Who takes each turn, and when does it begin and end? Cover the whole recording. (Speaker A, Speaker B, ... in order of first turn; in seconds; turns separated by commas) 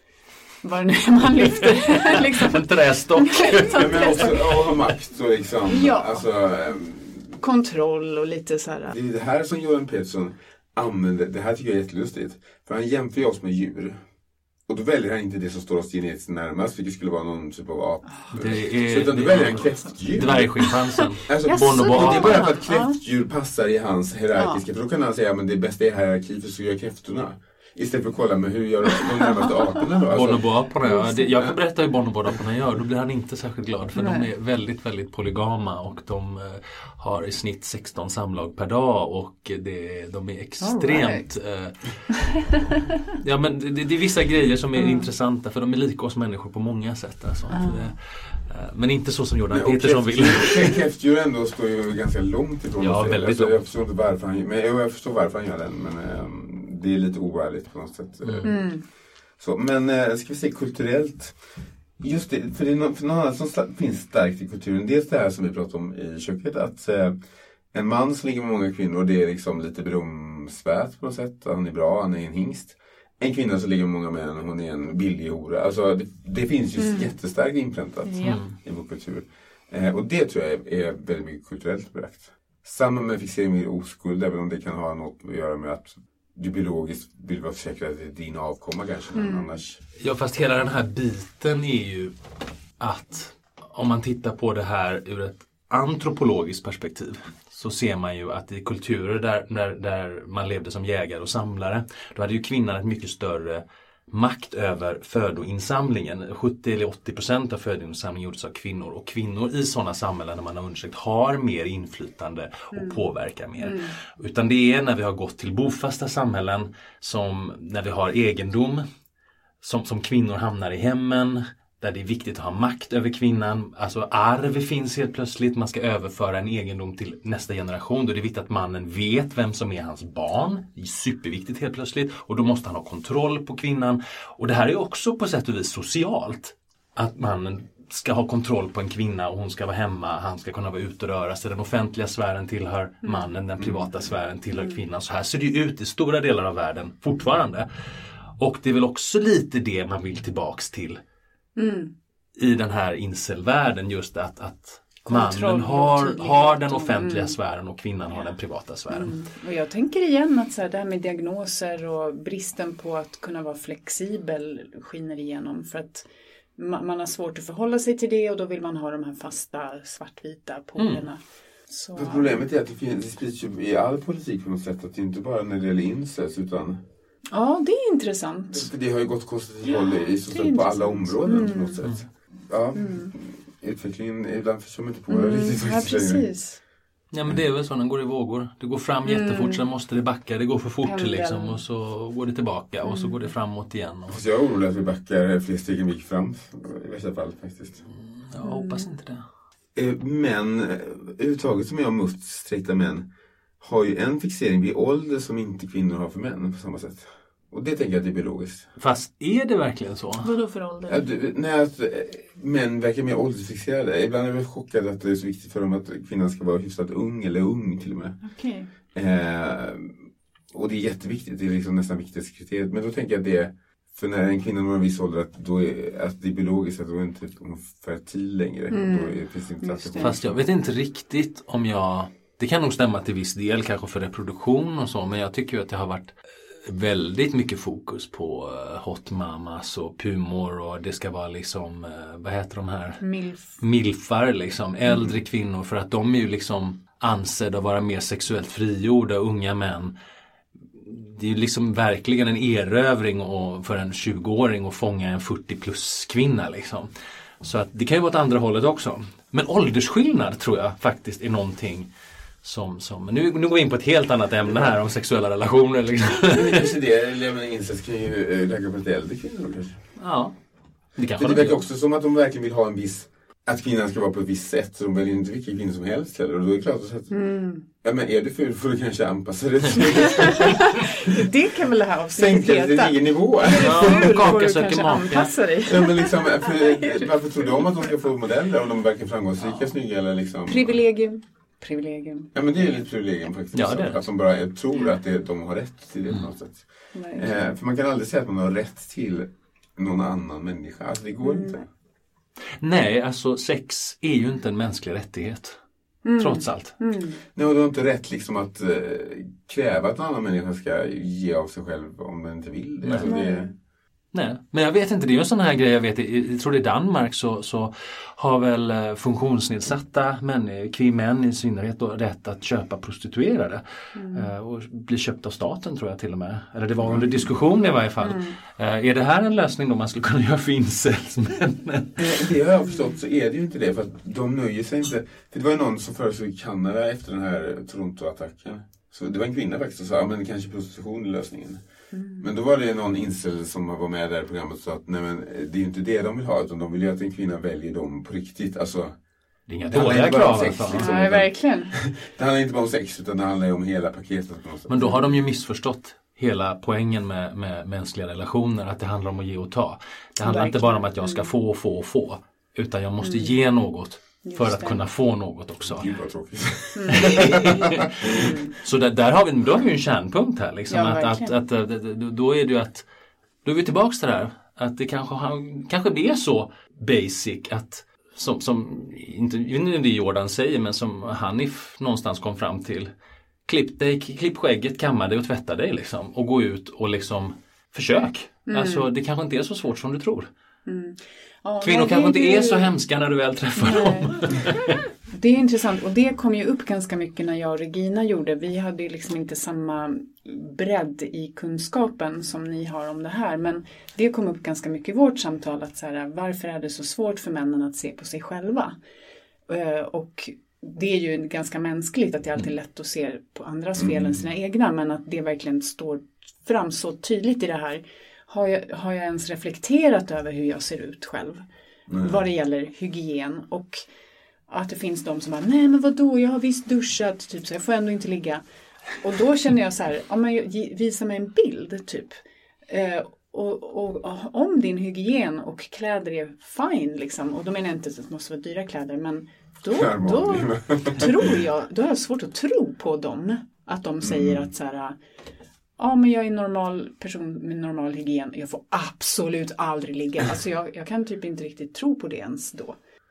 Speaker A: 0.6-4.4, Speaker B: 1.6-4.2, Speaker C: 3.7-7.3, Speaker A: 5.7-6.2, Speaker A: 7.4-8.9, Speaker C: 8.9-14.0, Speaker C: 14.7-20.7, Speaker A: 18.1-18.4, Speaker B: 18.3-22.5, Speaker C: 21.3-30.4, Speaker A: 21.4-23.0, Speaker A: 24.4-24.6, Speaker B: 30.1-42.5, Speaker A: 30.8-31.3, Speaker A: 34.0-34.3, Speaker A: 40.6-41.3, Speaker B: 43.1-50.6, Speaker A: 44.8-45.1, Speaker A: 47.5-47.9, Speaker C: 49.5-58.7, Speaker B: 52.8-53.5, Speaker A: 58.4-58.8, Speaker C: 59.4-61.4, Speaker C: 62.0-67.2, Speaker C: 67.7-89.8, Speaker A: 76.8-77.1, Speaker A: 78.0-78.4, Speaker B: 78.2-78.5, Speaker A: 89.1-89.6, Speaker B: 90.0-92.2, Speaker B: 92.8-118.8, Speaker A: 112.7-113.0, Speaker A: 113.6-113.9, Speaker B: 119.6-147.7, Speaker C: 143.6-143.9, Speaker B: 148.4-151.0, Speaker A: 151.6-151.9, Speaker B: 152.3-159.2, Speaker A: 155.1-157.4, Speaker A: 158.9-166.1, Speaker A: 166.6-172.4, Speaker C: 171.9-176.8, Speaker A: 177.3-178.7, Speaker C: 178.5-186.3, Speaker A: 179.6-181.8, Speaker A: 182.7-183.1, Speaker A: 185.1-186.6, Speaker B: 187.1-194.2, Speaker A: 189.0-189.7, Speaker A: 190.8-191.6, Speaker A: 192.8-193.1, Speaker C: 194.1-197.8, Speaker B: 198.3-199.2, Speaker A: 198.4-198.9, Speaker C: 199.7-203.1, Speaker C: 203.6-208.7, Speaker B: 208.8-210.3, Speaker A: 210.2-211.0, Speaker C: 210.8-218.2, Speaker A: 218.2-218.7, Speaker C: 218.9-220.0, Speaker C: 220.5-230.4, Speaker A: 228.7-230.1, Speaker B: 230.0-236.1, Speaker B: 236.7-243.0, Speaker A: 243.0-243.5, Speaker B: 243.6-249.9, Speaker B: 250.8-256.9, Speaker B: 257.4-261.9, Speaker B: 262.4-266.7, Speaker C: 266.3-269.8, Speaker B: 270.0-270.3, Speaker B: 270.9-271.6, Speaker C: 271.1-277.1, Speaker A: 277.1-277.6, Speaker C: 277.8-280.6, Speaker A: 280.1-287.9, Speaker C: 282.1-284.1, Speaker B: 283.6-285.4, Speaker C: 285.6-290.8, Speaker A: 290.5-292.7, Speaker C: 292.3-301.6, Speaker B: 293.5-294.1, Speaker A: 296.9-297.4, Speaker A: 301.2-301.6, Speaker B: 302.6-305.6, Speaker A: 306.0-307.2, Speaker B: 306.2-306.8, Speaker C: 307.3-313.5, Speaker B: 312.8-313.1, Speaker A: 313.0-313.5, Speaker B: 314.1-332.0, Speaker A: 323.9-324.3, Speaker C: 326.8-327.3, Speaker A: 328.0-328.3, Speaker C: 332.0-341.6, Speaker A: 332.6-333.0, Speaker A: 341.9-342.3, Speaker C: 342.2-348.9, Speaker B: 349.5-350.9, Speaker C: 349.7-355.0, Speaker A: 350.7-351.7, Speaker B: 354.7-365.9, Speaker A: 354.8-355.1, Speaker A: 360.2-361.3, Speaker A: 363.0-363.4, Speaker A: 364.2-364.8, Speaker C: 365.6-368.3, Speaker A: 366.7-367.4, Speaker B: 367.0-367.8, Speaker A: 368.1-368.5, Speaker B: 368.6-372.8, Speaker A: 370.7-371.4, Speaker B: 373.4-382.9, Speaker B: 383.4-390.3, Speaker A: 388.5-388.9, Speaker A: 390.7-392.7, Speaker B: 391.6-394.8, Speaker A: 393.6-394.4, Speaker A: 395.1-408.8, Speaker A: 409.5-421.4, Speaker C: 413.8-414.2, Speaker C: 421.9-422.2, Speaker A: 422.0-423.8, Speaker A: 424.5-428.4, Speaker A: 429.0-432.1, Speaker A: 432.7-445.0, Speaker C: 439.7-441.3, Speaker C: 444.0-444.5, Speaker A: 445.8-452.8